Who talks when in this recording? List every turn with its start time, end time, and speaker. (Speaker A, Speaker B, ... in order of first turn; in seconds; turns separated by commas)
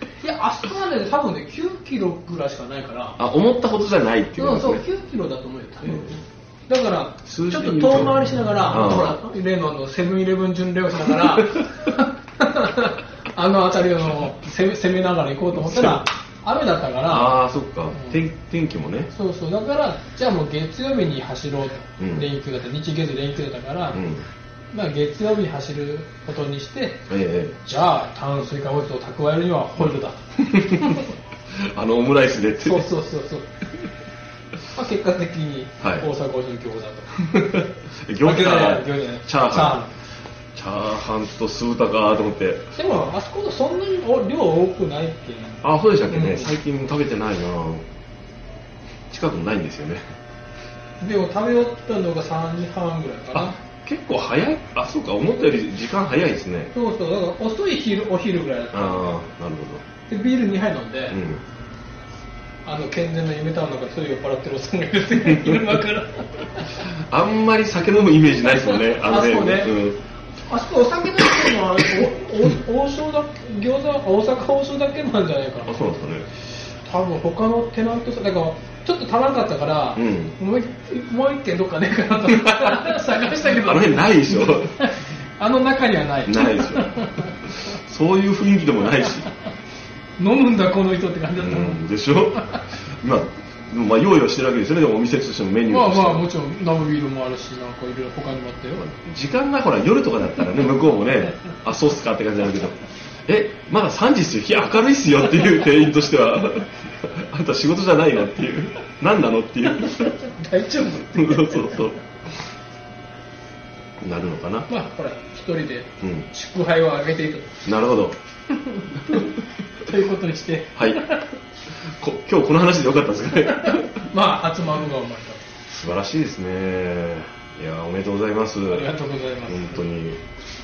Speaker A: 0.2-3.2, Speaker B: 3.2-4.8, Speaker A: 4.3-17.4, Speaker B: 5.8-6.2, Speaker B: 7.2-9.2, Speaker B: 11.2-11.6, Speaker B: 15.5-16.0, Speaker B: 17.1-19.1, Speaker A: 17.9-18.2, Speaker A: 19.1-24.0, Speaker B: 22.0-22.3, Speaker B: 23.9-24.3, Speaker A: 24.7-27.1, Speaker B: 27.1-27.6, Speaker A: 27.6-31.1, Speaker B: 30.4-32.9, Speaker A: 32.6-33.6, Speaker A: 34.7-37.5, Speaker B: 35.8-36.1, Speaker B: 37.3-39.8, Speaker A: 38.2-39.9, Speaker B: 40.5-42.7, Speaker A: 42.7-46.5, Speaker B: 45.6-47.8, Speaker B: 49.1-50.0, Speaker A: 51.0-53.6, Speaker B: 53.3-56.7, Speaker A: 56.7-59.2, Speaker B: 58.7-59.8, Speaker A: 60.1-61.2, Speaker B: 61.1-61.4, Speaker A: 62.6-66.8, Speaker B: 65.1-65.8, Speaker B: 66.7-70.0, Speaker A: 68.9-69.8, Speaker A: 70.5-75.8, Speaker B: 75.6-76.3, Speaker A: 76.6-87.6, Speaker B: 79.9-80.3, Speaker B: 82.3-84.8, Speaker B: 86.2-89.3, Speaker A: 90.2-91.8, Speaker B: 91.3-96.3, Speaker A: 95.7-98.9, Speaker B: 98.9-110.2, Speaker A: 109.8-111.9, Speaker B: 111.0-112.0, Speaker B: 114.0-114.7, Speaker A: 114.7-117.6, Speaker B: 116.0-116.3, Speaker B: 117.6-118.2, Speaker A: 118.6-121.3, Speaker B: 120.7-123.9, Speaker A: 123.6-125.4, Speaker B: 125.7-128.9, Speaker A: 128.7-129.8, Speaker B: 129.4-130.2